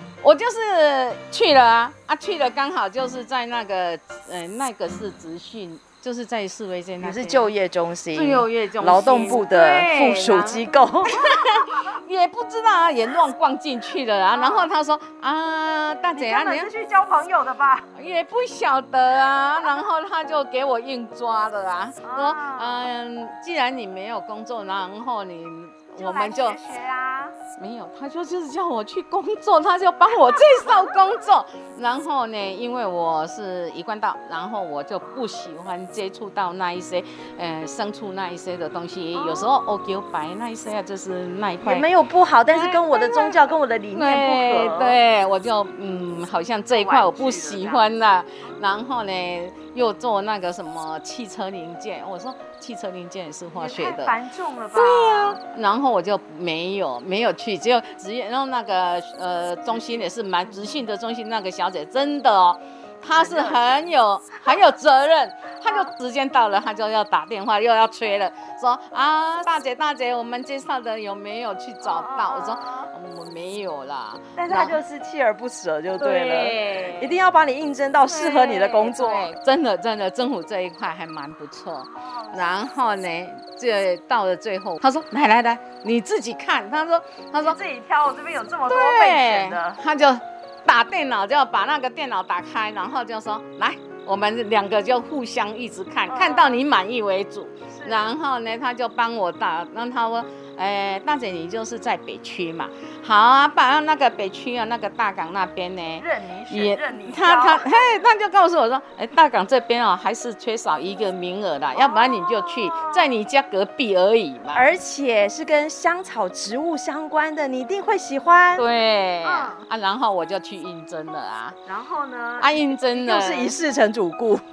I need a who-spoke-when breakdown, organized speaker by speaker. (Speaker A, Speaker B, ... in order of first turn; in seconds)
Speaker A: 0.2-7.5, 8.1-16.7, 17.9-26.6, 27.6-41.9, 42.5-54.1, 54.7-74.8, 76.0-77.1, 78.0-87.6, 88.7-114.7, 118.6-121.6, 122.4-123.5
Speaker B: 7.0-11.6, 14.3-14.7, 16.2-17.9, 22.0-22.9, 26.0-27.4, 30.2-30.8, 39.1-39.5, 41.6-45.0, 46.7-47.9, 53.6-55.4, 63.1-63.9, 71.8-72.9, 74.3-79.3, 82.0-82.4, 87.4-89.8, 96.1-96.6, 97.7-98.0, 106.0-107.9, 111.8-113.2, 114.5-118.7, 119.2-119.7, 121.7-124.4